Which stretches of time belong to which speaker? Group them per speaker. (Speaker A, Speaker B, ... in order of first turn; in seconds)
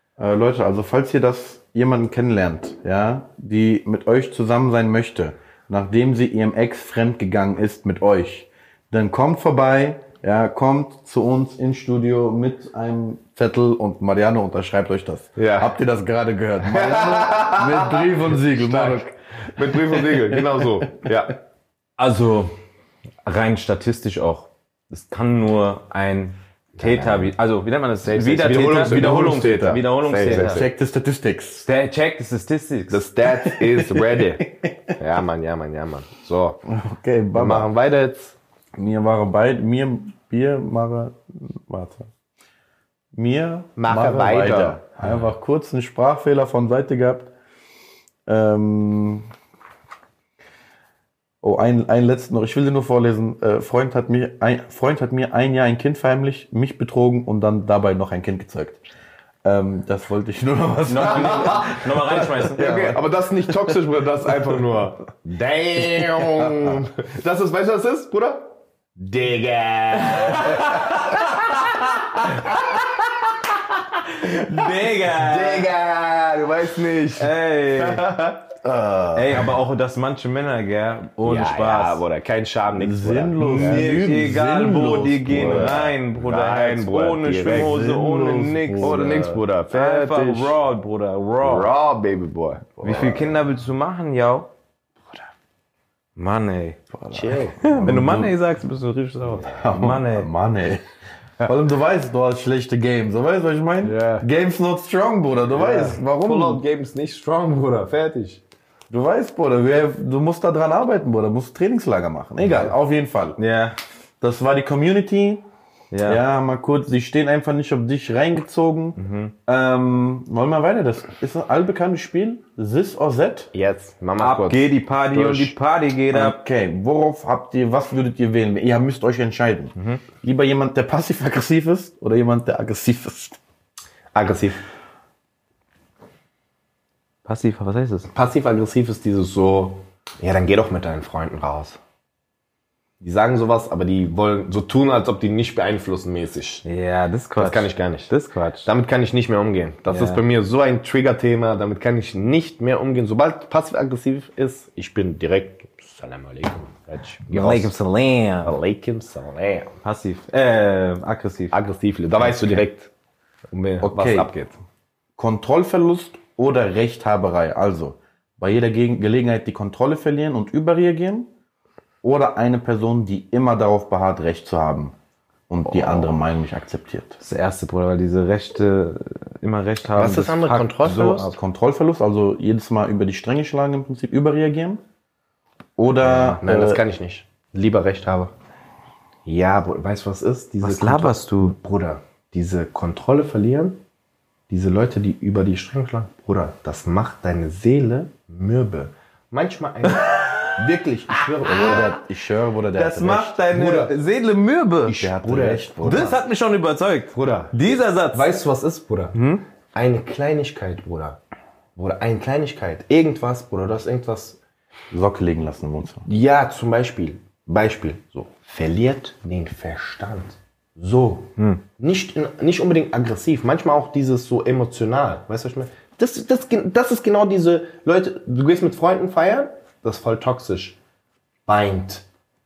Speaker A: 0.2-21.1, 28.9-31.7, 33.4-35.0, 36.6-37.7, 38.8-42.1, 43.1-47.3, 48.3-49.3, 51.4-58.8, 59.4-63.8, 66.2-66.8, 78.6-79.5, 82.8-86.0, 87.5-89.4, 96.9-98.4, 99.5-100.8, 101.4-106.6, 108.9-113.4, 114.2-115.5, 116.0-123.5, 126.1-133.4, 163.8-164.3, 165.2-171.3, 172.0-174.9, 175.5-177.2, 181.3-184.8, 185.8-186.8, 201.4-203.4, 204.9-206.2, 214.9-216.1
Speaker B: 15.4-15.8, 16.6-21.4, 26.8-27.3, 28.0-30.6, 32.9-36.6, 37.4-38.4, 43.8-44.8, 61.0-71.5, 72.2-73.0, 74.6-78.4, 81.2-83.9, 85.3-87.8, 88.8-90.6, 91.4-93.3, 97.1-97.8, 103.8-104.3, 105.5-108.4, 112.4-112.7, 123.5-125.5, 134.1-134.6, 138.1-141.8, 143.0-146.7, 147.4-148.1, 148.6-157.7, 158.4-159.8, 161.5-162.9, 163.5-164.6, 180.0-181.3, 186.1-188.3, 189.3-193.8, 194.5-202.0, 203.5-203.9, 205.1-206.2, 207.1-209.2, 209.7-211.2, 211.8-214.4, 216.1-230.8, 231.5-232.1
Speaker C: 22.0-22.5, 23.2-30.7, 31.6-33.1, 60.9-62.8, 70.1-72.8, 74.0-75.7, 77.2-78.1, 79.1-82.0, 83.4-91.7, 92.8-94.5, 96.2-96.8, 97.6-100.3, 113.4-113.8, 115.9-116.2, 119.0-119.3, 124.2-126.4, 129.8-130.0, 137.2-138.1, 146.7-148.7, 149.9-150.2, 157.3-158.6, 159.8-161.6, 162.2-162.6, 177.2-181.4, 186.1-186.4, 190.6-191.6, 200.0-200.5, 202.8-205.1, 205.8-208.3, 209.2-209.4